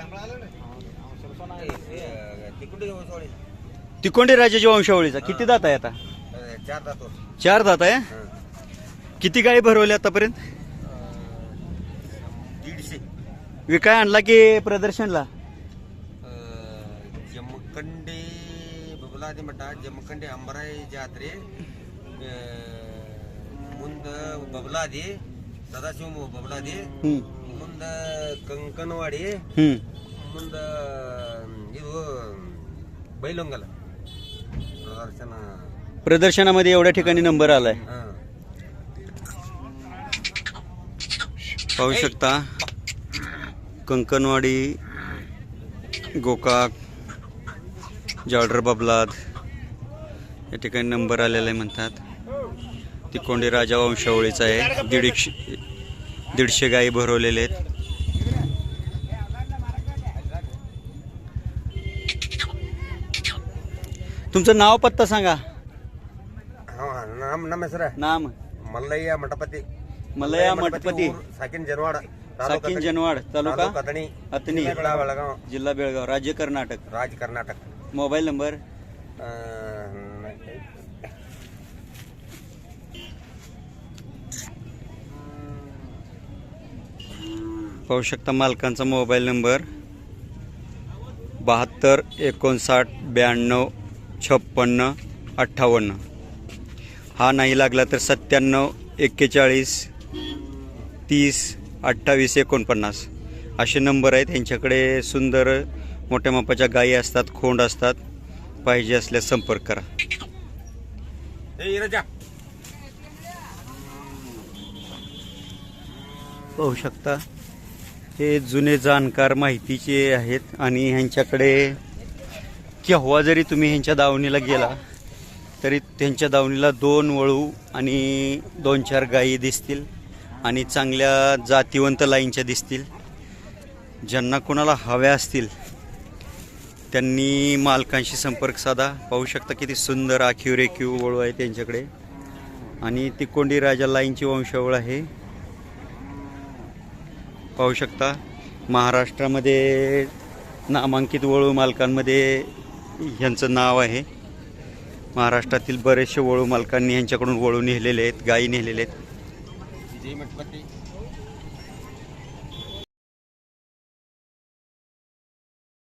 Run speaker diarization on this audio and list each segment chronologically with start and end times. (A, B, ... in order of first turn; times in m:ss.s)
0:01.4-0:03.4 A
0:04.0-0:06.0 B
0:05.2-0:05.5 A
0:06.3-0:07.2 A
0:07.4-0:08.1 B
0:09.2-0:10.4 B
0:10.8-0:13.0 A
0:13.7-0:15.3 B
0:16.2-0:21.5 A
0:22.2-0:29.4 A
0:29.6-0:29.8 B
0:30.1-0:33.7 A
0:34.8-0:35.7 A
0:36.0-0:37.8 B
0:37.8-0:38.2 A
0:41.8-0:42.5 B
0:43.9-0:44.8 B
0:46.1-0:46.7 B
0:48.3-0:49.1 B
0:50.5-0:52.0 B
0:53.1-0:55.6 B
0:56.3-0:57.6 B
1:04.3-1:05.4 B
1:06.7-1:08.0 A
1:08.0-1:08.3 B
1:08.6-1:09.6 A
1:10.2-1:11.2 B
1:10.2-1:15.4 A
1:12.4-1:13.7 B
1:14.3-1:16.8 B
1:16.9-1:17.7 A
1:17.9-1:18.6 B
1:19.2-1:20.8 A
1:27.9-1:29.6 B
1:31.4-1:36.0 B
1:37.2-1:39.9 B
1:41.1-1:43.1 B
1:43.6-1:48.0 B
1:48.6-1:49.8 B
1:51.6-1:52.1 A
1:56.6-1:57.2 B
1:58.2-2:01.8 B
2:02.8-2:04.8 B
2:05.6-2:09.9 B
2:10.4-2:12.9 B
2:14.0-2:15.5 B
2:16.9-2:21.9 B
2:22.8-2:25.1 B
2:27.6-2:30.1 B
2:30.7-2:34.0 B
2:35.1-2:38.9 B
2:39.9-2:40.7 A